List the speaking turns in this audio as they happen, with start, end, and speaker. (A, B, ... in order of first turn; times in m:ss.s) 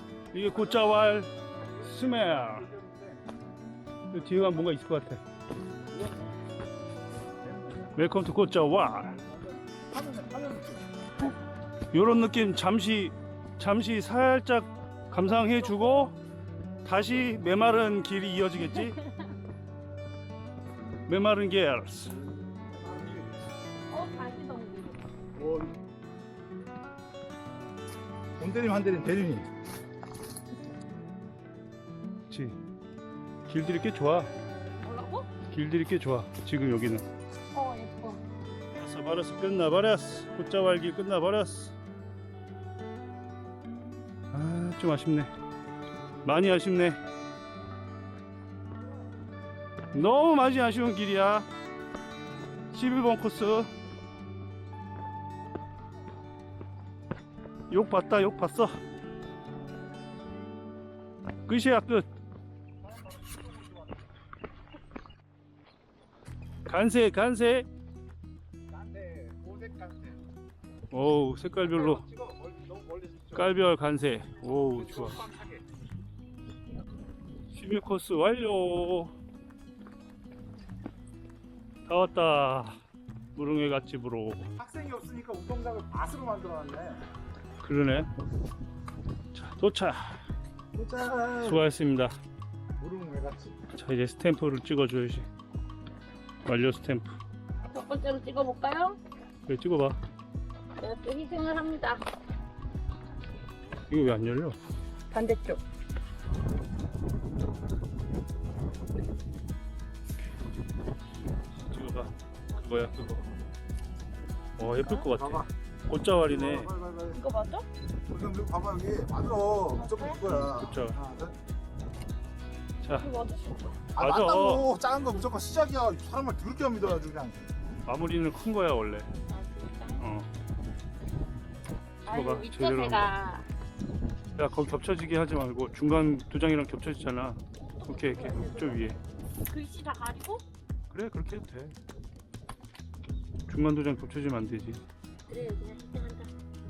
0:00.3-0:01.1 A
0:00.3-0:02.6 B
0:01.8-0:03.2 A
0:04.1-0:05.2 B
0:04.1-0:04.7 A
0:05.9-0:06.3 A
0:07.4-0:08.1 A
0:08.0-0:09.2 B
0:08.8-0:10.9 A
0:11.9-0:16.1 B
0:16.8-0:19.0 B
0:21.1-0:22.1 B
0:22.5-0:23.3 A
0:23.9-0:25.0 C
0:25.4-0:25.7 A
0:28.4-0:29.5 A
0:32.3-0:32.6 B
0:33.5-0:34.3 B
0:34.8-0:35.3 C
0:35.5-0:37.0 B
0:37.5-0:38.2 C
0:38.7-0:41.7 B
0:44.3-0:45.3 B
0:46.2-0:47.0 B
0:49.9-0:51.5 B
0:52.7-0:53.7 B
0:57.7-0:58.8 B
1:01.5-1:02.0 B
1:02.8-1:04.1 A
1:06.7-1:07.7 B
1:08.7-1:10.2 A
1:10.9-1:12.0 B
1:11.6-1:13.6 A
1:13.3-1:15.2 B
1:14.4-1:15.6 A
1:17.5-1:19.1 B
1:21.9-1:22.8 B
1:23.3-1:24.5 B
1:24.6-1:27.0 A
1:27.6-1:28.1 B
1:29.3-1:30.3 B
1:30.7-1:31.6 A
1:31.4-1:32.2 B
1:32.8-1:33.6 A
1:33.7-1:35.2 B
1:36.4-1:37.2 B
1:37.7-1:39.0 C
1:39.5-1:40.0 B
1:40.8-1:42.0 C
1:43.9-1:44.6 B
1:45.1-1:45.6 C
1:51.6-1:53.2 B
1:54.6-1:56.7 B
1:54.8-1:55.5 A
1:56.2-1:57.3 A
1:57.1-1:57.6 C
1:58.1-2:01.3 A
1:59.7-2:00.2 C
2:00.2-2:01.0 B
2:02.8-2:03.1 B
2:02.9-2:03.6 C
2:04.0-2:07.5 A
2:04.0-2:04.7 B
2:07.8-2:09.1 B
2:09.3-2:10.1 C
2:10.0-2:10.3 B
2:12.0-2:13.5 C
2:12.1-2:13.2 B
2:14.4-2:19.0 B
2:17.8-2:18.8 C
2:19.5-2:20.4 C
2:20.9-2:21.7 B
2:23.5-2:24.8 B
2:25.3-2:26.3 C